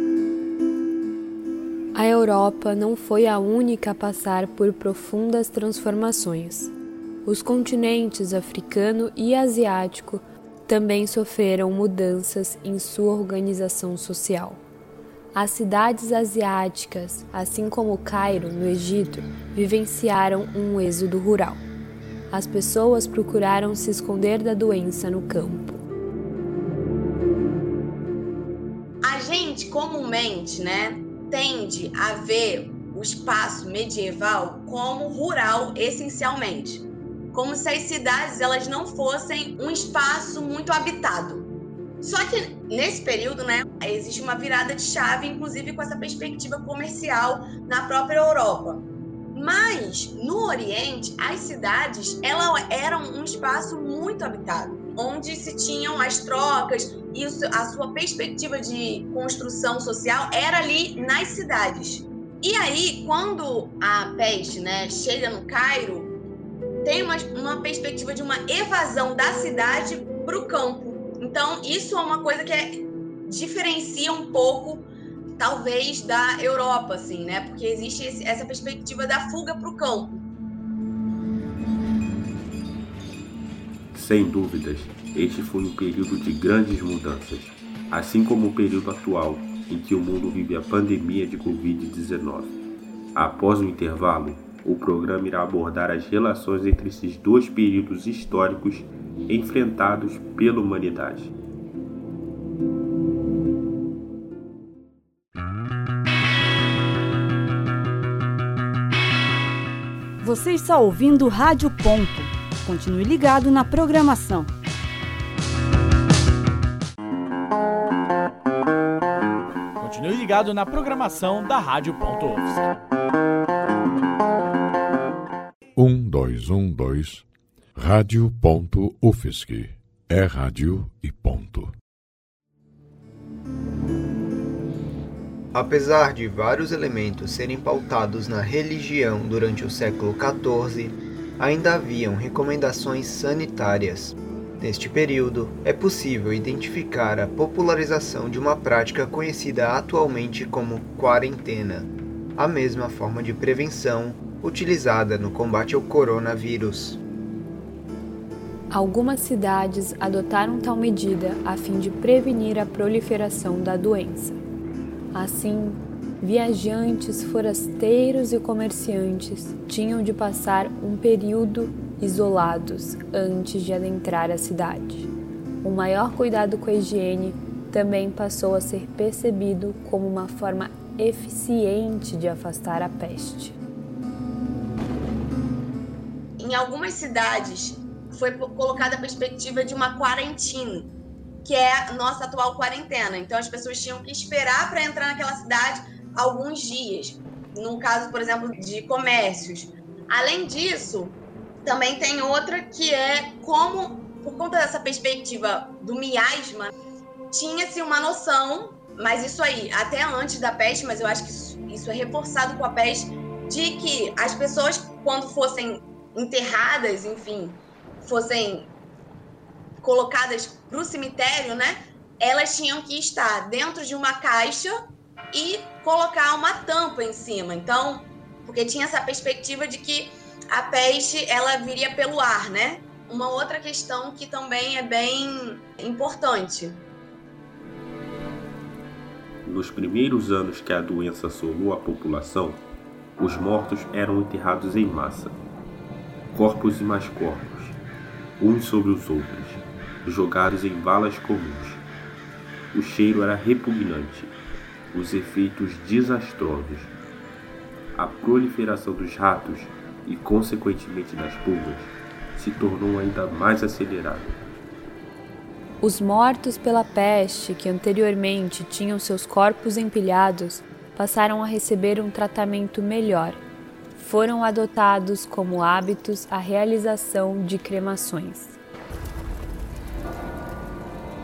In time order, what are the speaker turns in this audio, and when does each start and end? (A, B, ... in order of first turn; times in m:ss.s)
0:01.9-0:06.7 A
0:07.2-0:14.6 A
0:15.3-0:21.6 A
0:22.3-0:25.9 A
0:29.0-0:41.5 B
0:42.0-1:06.2 B
1:06.8-1:14.9 B
1:15.4-1:20.2 B
1:23.9-1:32.6 C
1:33.2-1:41.3 C
1:50.2-1:54.5 D
1:59.8-2:02.6 E
2:05.8-2:07.2 F
2:07.8-2:11.7 F
2:15.5-2:37.0 G
2:38.7-2:44.4 A
2:45.1-2:55.1 A
2:55.6-3:03.6 A
3:06.4-3:26.7 B
3:27.3-3:38.7 B
3:39.8-3:44.7 B
3:45.3-3:56.8 B
3:59.4-4:02.6 C
4:03.2-4:05.4 C
4:06.3-4:07.8 C
4:08.4-4:11.8 C
4:12.7-4:14.4 C
4:14.9-4:16.9 C
4:18.0-4:24.4 C
4:25.8-4:33.4 A
4:33.9-4:38.6 A